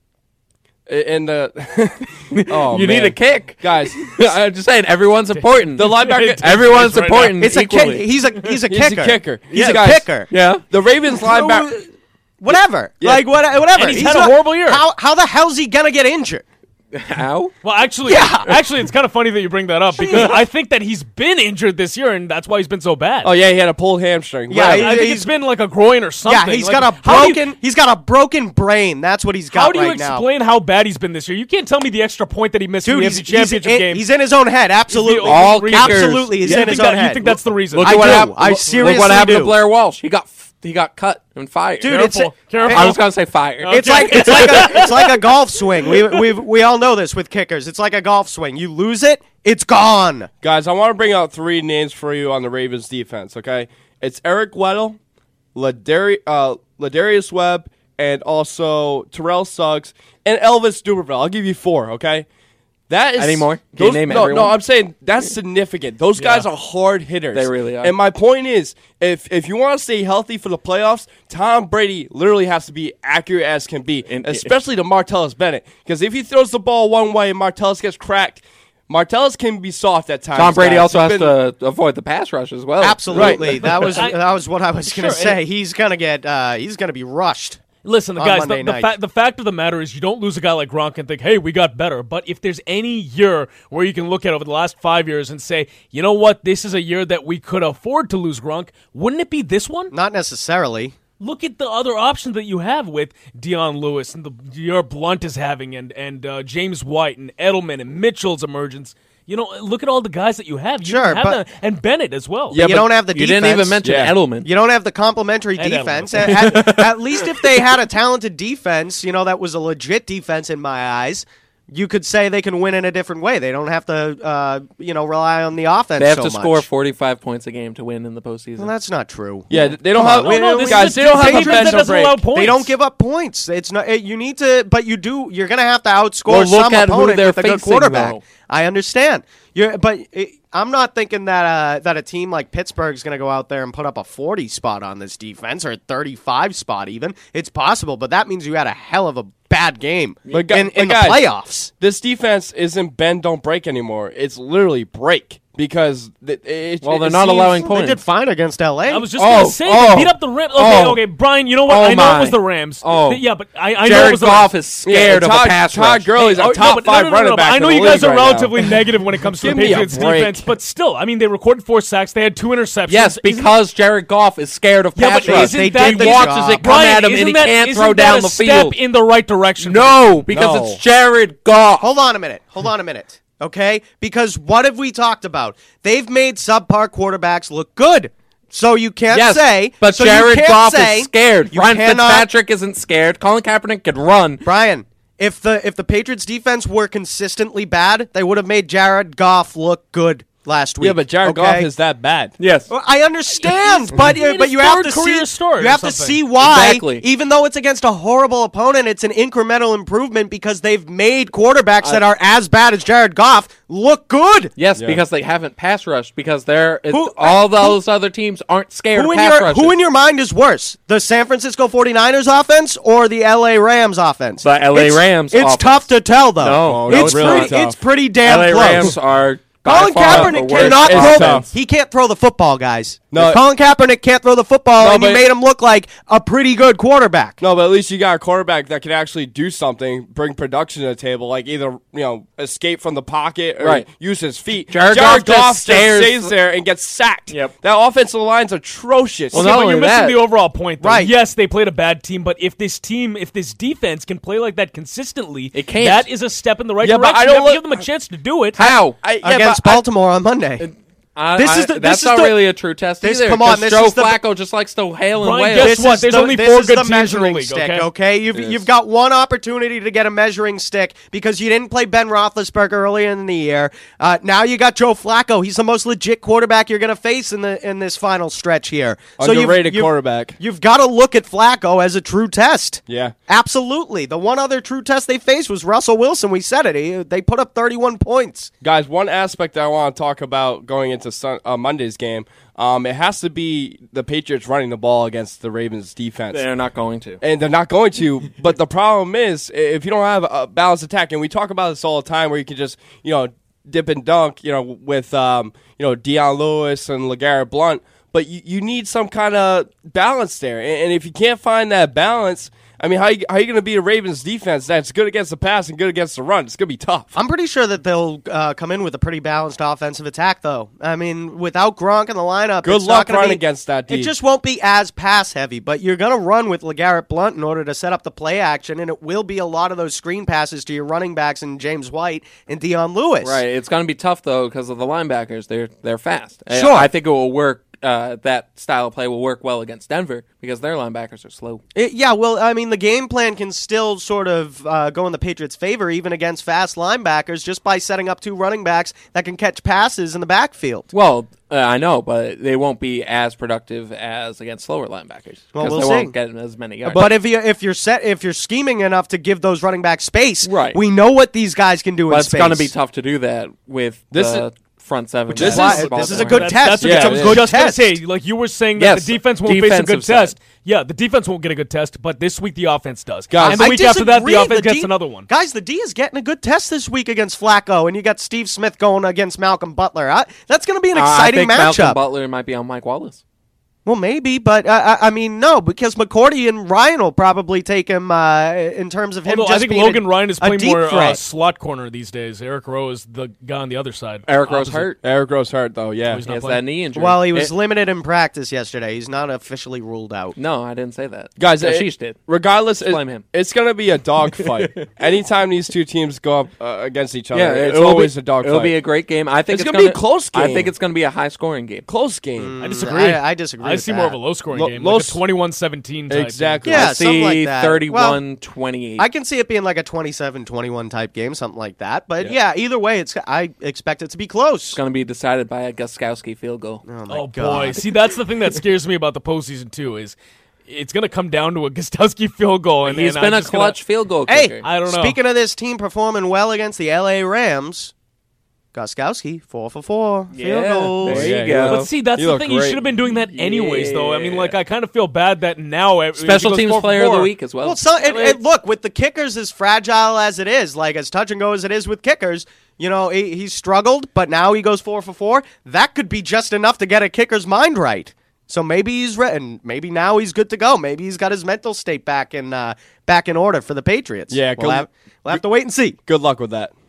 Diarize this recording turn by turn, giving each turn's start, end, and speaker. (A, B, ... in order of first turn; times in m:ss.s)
0:00.9-0:04.0 A
0:02.3-0:08.1 B
0:05.3-0:07.4 C
0:05.8-0:06.5 A
0:07.4-0:10.3 D
0:08.7-0:10.1 A
0:10.3-0:10.6 B
0:10.7-0:11.7 A
0:11.1-0:11.8 D
0:12.4-0:16.4 D
0:13.0-0:13.2 A
0:13.7-0:14.8 C
0:16.9-0:17.5 B
0:17.6-0:23.3 C
0:18.0-0:18.5 D
0:19.9-0:20.4 D
0:23.2-0:24.9 A
0:24.5-0:25.3 D
0:24.5-0:27.5 C
0:26.2-0:30.2 D
0:29.5-0:34.1 C
0:32.8-0:39.6 D
0:34.9-0:39.0 C
0:35.2-0:36.7 B
0:37.7-0:42.0 B
0:41.8-0:43.0 D
0:41.8-0:43.0 C
0:42.7-0:44.9 B
0:43.6-0:45.2 C
0:43.6-0:50.3 D
0:50.4-0:55.0 A
0:55.5-1:02.3 A
1:02.9-1:21.4 A
1:03.2-1:04.6 B
1:06.2-1:06.5 B
1:07.3-1:08.0 B
1:14.0-1:14.6 B
1:20.3-1:24.0 B
1:22.8-1:27.6 D
1:23.1-1:23.5 A
1:23.9-1:24.2 C
1:24.8-1:25.4 C
1:27.8-1:39.9 C
1:28.2-1:28.9 D
1:39.9-1:40.9 D
1:41.2-1:52.6 C
1:50.8-1:51.4 D
1:52.5-1:52.9 A
1:52.5-1:53.9 D
1:52.6-1:54.5 B
1:53.8-1:54.1 A
1:54.4-2:06.7 D
1:55.6-1:56.5 C
1:56.4-1:57.5 B
2:06.0-2:08.7 B
2:08.6-2:31.7 D
2:09.5-2:12.2 A
2:10.2-2:12.7 C
2:16.3-2:18.2 B
2:30.2-2:30.5 B
2:30.3-2:31.2 A
2:31.8-2:37.7 A
2:36.8-2:38.0 B
2:37.6-2:39.1 D
2:38.9-2:44.5 C
2:39.2-2:41.0 B
2:41.6-2:43.2 B
2:43.8-2:46.1 B
2:44.8-2:48.6 A
2:46.2-2:53.6 C
2:49.3-2:50.5 A
2:52.9-2:58.8 B
2:55.0-3:00.1 C
2:55.2-2:56.8 D
2:59.6-3:01.9 B
3:00.3-3:00.8 A
3:01.8-3:12.3 D
3:09.1-3:14.5 B
3:14.4-3:21.7 D
3:20.8-3:22.3 A
3:22.4-3:22.7 B
3:22.7-3:34.5 D
3:23.3-3:26.2 C
3:26.4-3:27.0 B
3:34.5-3:39.8 B
3:36.9-3:37.8 D
3:38.9-3:49.0 D
3:44.4-3:45.9 B
3:46.4-3:47.6 B
3:46.6-3:47.8 A
3:48.2-3:51.5 B
3:49.6-3:57.4 D
3:50.0-3:51.5 A
3:53.1-3:53.4 A
3:54.8-3:55.3 A
3:57.4-4:09.5 A
4:03.6-4:03.8 B
4:04.7-4:06.3 B
4:07.3-4:07.5 B
4:09.3-4:18.6 C
4:09.3-4:10.2 B
4:10.8-4:11.1 D
4:15.5-4:16.1 B
4:16.8-4:17.8 A
4:18.5-4:19.0 B
4:19.0-4:19.9 A
4:19.2-4:20.7 D
4:20.6-4:25.8 B
4:21.3-4:24.2 D
4:25.2-4:27.9 C
4:25.6-4:48.5 D
4:28.3-4:28.6 A
4:39.2-4:40.4 A
4:42.9-4:43.1 A
4:48.6-4:56.4 A
4:56.3-4:57.2 B
4:57.2-5:17.1 A
5:17.1-5:33.4 D
5:22.6-5:24.1 A
5:33.2-5:41.6 B
5:36.5-5:36.9 D
5:41.7-5:50.9 D
5:50.9-5:57.1 B
5:55.5-5:56.1 D
5:56.8-5:57.1 A
5:56.9-6:02.7 D
6:00.4-6:00.8 B
6:02.1-6:06.6 B
6:04.1-6:04.5 A
6:05.3-6:05.9 A
6:05.3-6:15.3 C
6:05.4-6:08.0 D
6:06.8-6:07.4 A
6:08.8-6:10.4 B
6:13.3-6:13.7 A
6:13.4-6:22.0 D
6:20.9-6:23.2 B
6:23.8-6:31.2 D
6:29.2-6:34.9 C
6:34.2-6:35.0 B
6:35.0-6:36.2 A
6:36.0-6:36.6 C
6:36.2-6:37.5 B
6:36.9-6:40.4 D
6:40.4-6:42.2 B
6:41.4-6:48.8 A
6:42.8-6:43.2 B
6:44.3-6:44.8 B
6:47.3-6:51.9 B
6:49.5-6:50.7 A
6:51.9-6:52.5 A
6:52.4-6:54.2 D
6:52.6-6:56.8 C
6:54.5-6:55.2 A
6:56.1-6:56.9 A
6:56.6-6:58.2 D
6:56.7-6:59.0 B
6:59.0-7:04.8 D
7:04.7-7:06.8 B
7:06.8-7:07.8 D
7:07.1-7:10.2 C
7:10.7-7:13.8 C
7:12.8-7:14.6 B
7:14.3-7:17.9 D
7:14.6-7:15.2 C
7:18.7-7:21.2 D
7:20.3-7:21.9 B
7:21.1-7:22.8 A
7:21.5-7:27.3 C
7:23.1-7:24.6 B
7:26.2-7:28.4 B
7:27.6-7:46.0 D
7:44.3-7:45.4 A
7:46.0-7:46.7 A